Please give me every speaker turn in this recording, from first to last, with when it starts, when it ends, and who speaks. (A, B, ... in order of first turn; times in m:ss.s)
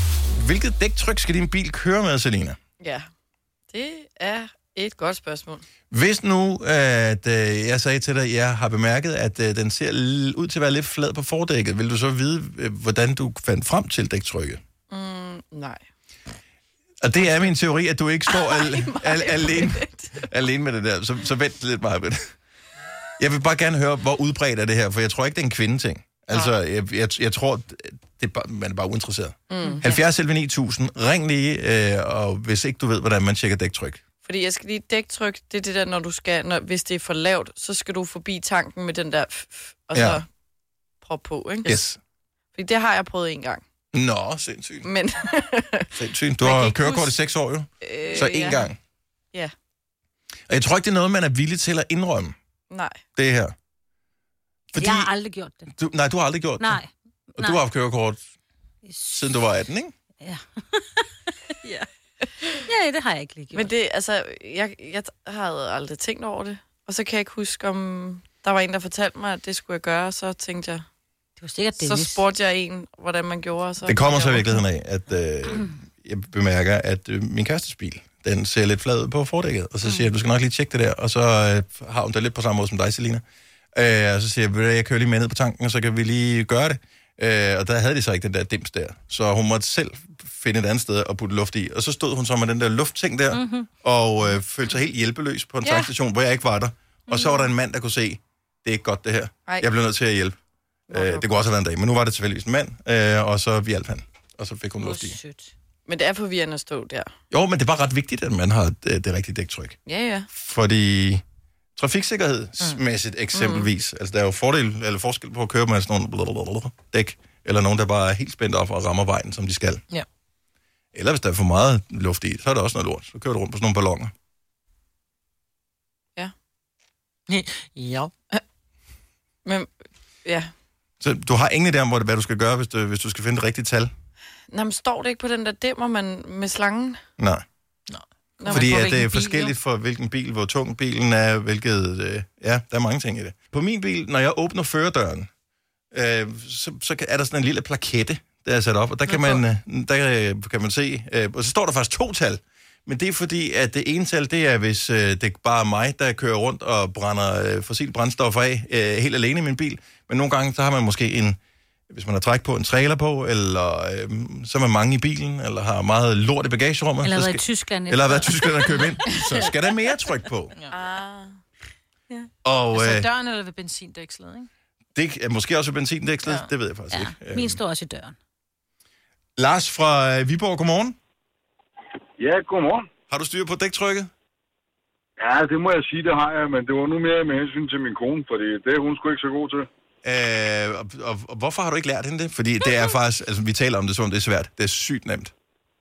0:00.4-0:02.6 A
0:02.8-0:03.0 B
0:03.7-0:05.6 B
0:05.9-0:14.6 A
0:14.9-0:15.8 B
0:17.0-0:22.3 A
0:18.3-0:20.2 B
0:23.2-0:34.0 A
0:29.5-0:29.8 B
0:29.7-0:30.0 C
0:34.2-0:40.2 B
0:39.9-0:40.2 A
0:41.0-0:41.8 B
0:41.6-0:42.0 A
0:42.6-0:43.6 B
0:43.9-0:44.9 A
0:44.8-0:45.9 B
0:46.0-0:48.8 A
0:46.4-0:47.1 C
0:47.8-0:48.7 B
0:50.5-0:52.3 A
0:52.7-0:53.0 B
0:53.2-0:53.5 A
0:54.7-0:55.1 A
0:54.8-0:55.7 D
0:55.7-0:56.8 A
0:56.6-0:57.6 D
0:57.4-0:58.2 A
0:58.8-0:59.2 D
0:59.1-0:59.9 A
1:00.2-1:01.0 D
1:02.6-1:03.7 D
1:03.5-1:10.8 B
1:11.4-1:12.2 D
1:11.8-1:14.4 B
1:13.8-1:23.2 A
1:23.7-1:40.4 A
1:33.3-1:33.7 D
1:35.6-1:35.9 B
1:40.9-1:41.3 B
1:40.9-1:45.2 A
1:44.8-1:45.5 D
1:45.8-1:47.1 B
1:47.3-1:49.8 A
1:49.8-1:50.3 B
1:50.3-1:51.2 A
1:51.8-1:59.8 A
1:53.3-1:53.7 B
2:00.9-2:04.1 A
2:07.3-2:08.1 C
2:10.2-2:10.5 B
2:11.0-2:13.9 A
2:14.5-2:17.0 B
2:17.9-2:19.5 C
2:18.4-2:18.8 B
2:18.5-2:25.3 A
2:25.9-2:41.4 A
2:29.1-2:29.4 C
2:41.9-2:50.5 A
2:47.0-2:48.8 D
2:50.7-2:51.3 B
2:52.4-2:53.1 A
2:52.7-2:54.5 C
2:54.9-2:57.6 A
2:56.2-2:56.5 C
2:56.9-2:58.2 D
2:59.4-3:01.0 A
3:02.2-3:02.9 E
3:03.1-3:04.1 A
3:05.2-3:09.7 E
3:10.0-3:15.3 A